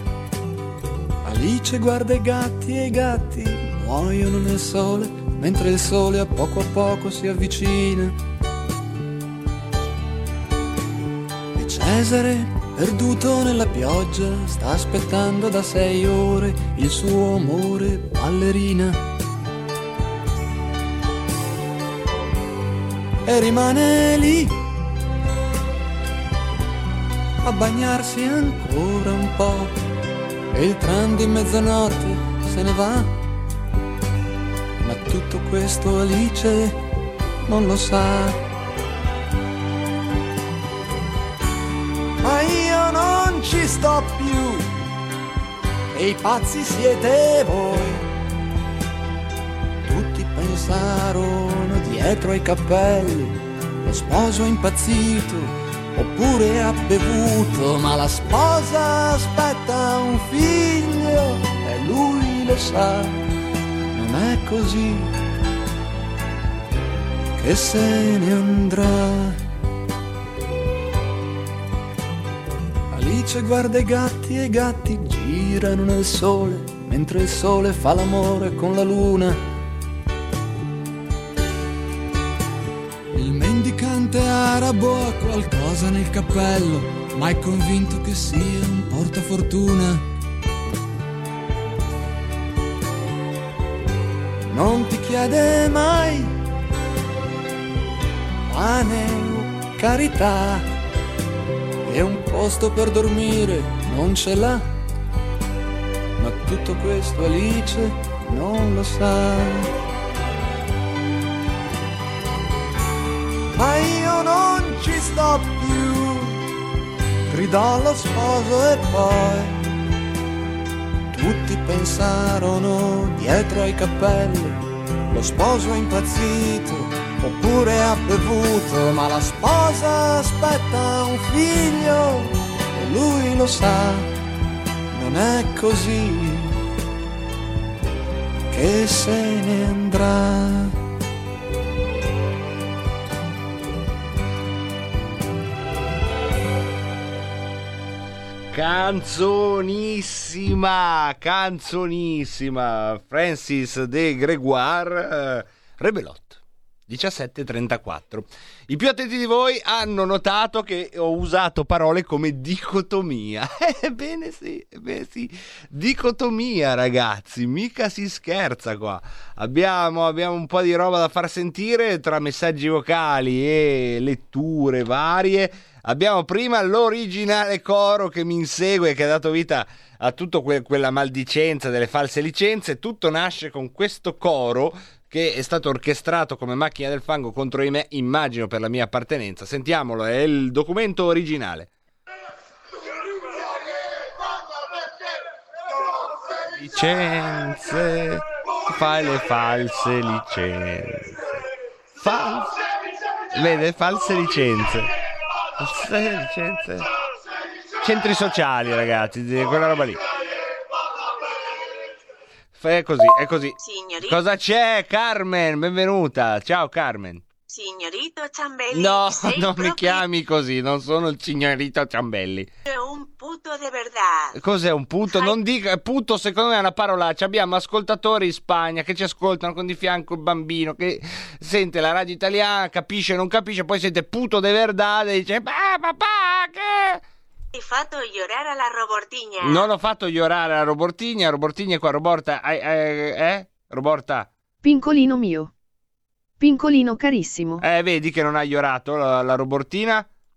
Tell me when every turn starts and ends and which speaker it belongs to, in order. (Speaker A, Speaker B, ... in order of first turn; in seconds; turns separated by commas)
Speaker A: 1.2-8.1, Speaker A: 11.5-19.0, Speaker A: 23.2-24.6, Speaker A: 27.4-29.7, Speaker A: 30.5-33.2, Speaker A: 34.8-36.8, Speaker A: 37.5-38.4, Speaker A: 42.2-44.7, Speaker A: 45.9-48.1, Speaker A: 49.8-63.2, Speaker A: 63.9-65.1, Speaker A: 67.4-69.4, Speaker A: 72.9-79.4, Speaker A: 83.1-90.0, Speaker A: 94.5-96.3, Speaker A: 98.5-100.7, Speaker A: 101.8-104.7, Speaker A: 106.2-109.7, Speaker A: 113.5-116.5, Speaker A: 117.3-119.7, Speaker A: 121.1-134.1, Speaker A: 134.9-136.6, Speaker A: 138.5-140.8, Speaker B: 148.5-191.7, Speaker B: 196.5-201.4, Speaker B: 202.0-202.6, Speaker B: 203.3-204.9, Speaker B: 205.6-206.9, Speaker B: 207.8-210.0, Speaker B: 212.6-217.3, Speaker C: 213.6-214.2, Speaker C: 217.5-220.0, Speaker B: 218.7-222.5, Speaker C: 222.7-224.3, Speaker B: 224.3-237.0, Speaker C: 225.0-225.3, Speaker C: 237.5-239.7, Speaker B: 239.4-244.3, Speaker D: 244.6-245.5, Speaker D: 246.4-247.6, Speaker B: 247.6-250.1